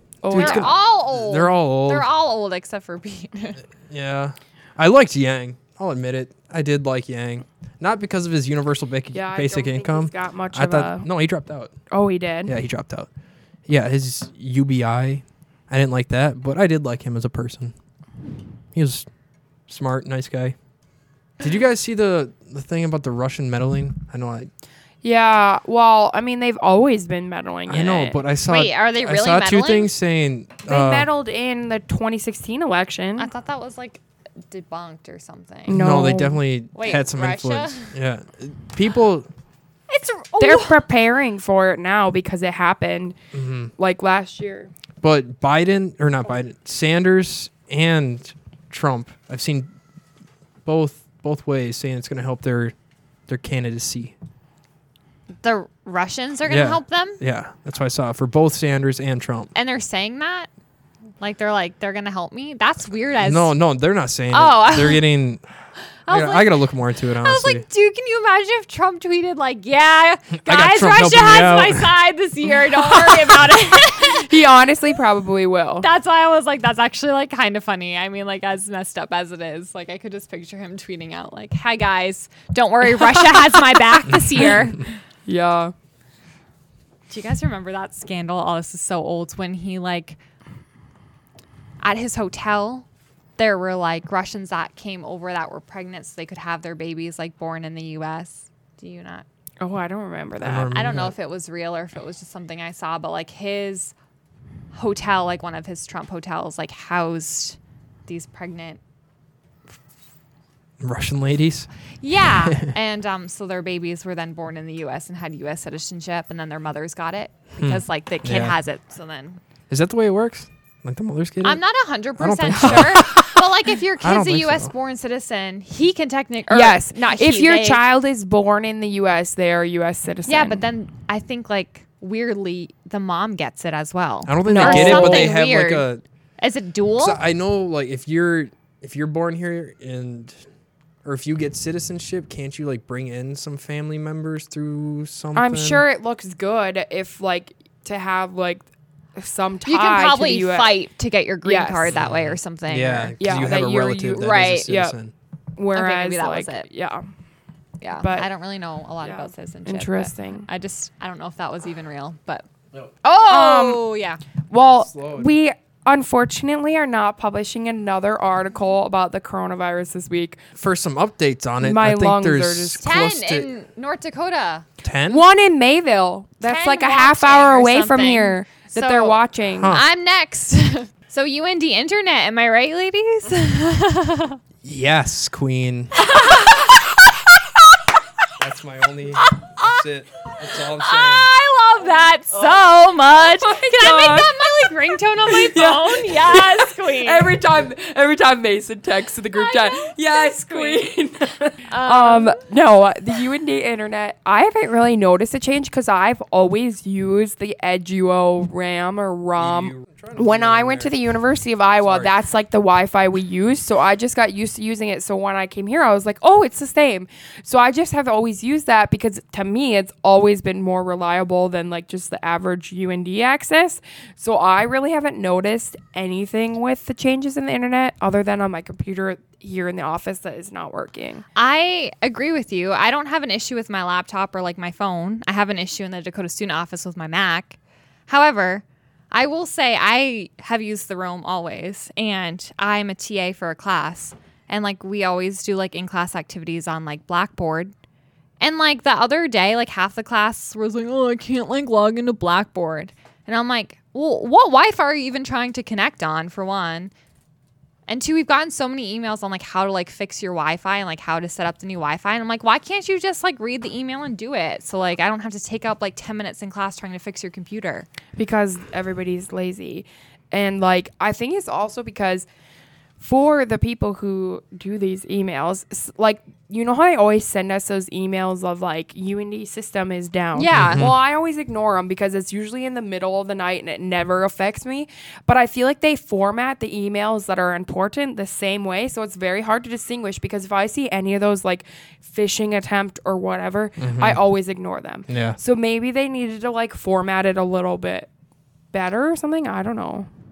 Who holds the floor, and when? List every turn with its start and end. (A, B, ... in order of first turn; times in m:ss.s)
0:00.2-0:00.7 A
0:00.3-0:02.1 B
0:00.4-0:03.6 C
0:03.9-0:11.7 B
0:09.1-0:11.1 A
0:11.9-0:12.5 A
0:12.5-0:13.1 B
0:13.7-0:17.8 B
0:18.7-0:19.1 B
0:19.7-0:20.6 B
0:21.4-0:24.5 B
0:25.0-0:28.2 A
0:27.7-0:31.1 B
0:28.5-0:29.9 C
0:30.7-0:33.3 A
0:33.2-0:35.8 C
0:35.7-0:36.4 A
0:35.7-0:39.3 B
0:36.7-0:37.9 C
0:39.9-0:40.8 C
0:40.4-0:43.2 A
0:43.3-0:43.7 B
0:43.8-0:44.7 A
0:45.0-0:49.7 B
0:50.6-0:52.8 B
0:53.3-0:54.2 B
0:55.4-0:57.2 C
0:56.5-0:59.5 B
0:59.5-1:00.5 C
1:01.2-1:03.5 C
1:03.2-1:05.4 B
1:04.3-1:05.0 C
1:06.1-1:06.6 C
1:06.1-1:07.6 B
1:07.2-1:14.4 C
1:10.4-1:11.9 B
1:12.6-1:13.4 A
1:14.0-1:15.9 A
1:15.8-1:24.9 C
1:25.3-1:25.7 A
1:27.1-1:30.2 C
1:31.8-1:32.9 C
1:33.4-1:39.3 C
1:39.6-1:40.7 A
1:40.4-1:41.2 B
1:40.7-1:44.0 C
1:44.7-1:48.8 C
1:50.8-1:51.7 B
1:52.0-1:59.4 C
1:52.3-1:52.7 B
1:57.6-1:58.6 B
1:59.7-2:01.6 B
2:01.4-2:07.8 C
2:02.2-2:03.5 B
2:04.0-2:04.7 B
2:06.5-2:10.6 A
2:10.3-2:15.9 C
2:14.3-2:16.0 B
2:14.5-2:15.3 A
2:16.4-2:17.2 C
2:17.0-2:20.4 B
2:21.0-2:25.8 B
2:25.4-2:28.6 A
2:29.2-2:30.7 A
2:29.7-2:33.2 C
2:31.4-2:31.9 A
2:31.9-2:35.1 B
2:33.2-2:35.0 A
2:34.2-2:34.7 C
2:35.6-2:37.1 A
2:35.7-2:36.7 C
2:37.8-2:42.4 C
2:38.0-2:38.3 A
2:39.0-2:40.5 A
2:43.0-2:44.2 C
2:43.3-2:43.8 A
2:44.5-2:50.4 A
2:44.7-2:45.3 B
2:50.6-2:53.5 B
2:51.6-2:52.9 A
2:52.8-2:54.7 C
2:54.8-2:55.2 B
2:55.1-2:59.8 A
2:56.4-3:04.4 C
2:59.6-2:59.8 B
3:04.6-3:05.9 B
3:06.0-3:06.8 C
3:08.4-3:11.3 B
3:09.2-3:09.8 C
3:10.6-3:17.3 C
3:13.3-3:51.2 A
3:19.3-3:20.8 C
3:21.7-3:22.4 C
3:29.4-3:31.0 B
3:31.8-3:32.1 B
3:51.4-4:07.7 C
4:08.4-4:16.9 C
4:17.9-4:27.9 C
4:28.2-4:32.3 A
4:33.0-4:58.1 A
4:40.4-4:40.9 C
4:40.5-4:41.0 B
4:53.8-4:54.2 B
4:55.1-4:55.4 B
4:58.7-5:00.1 A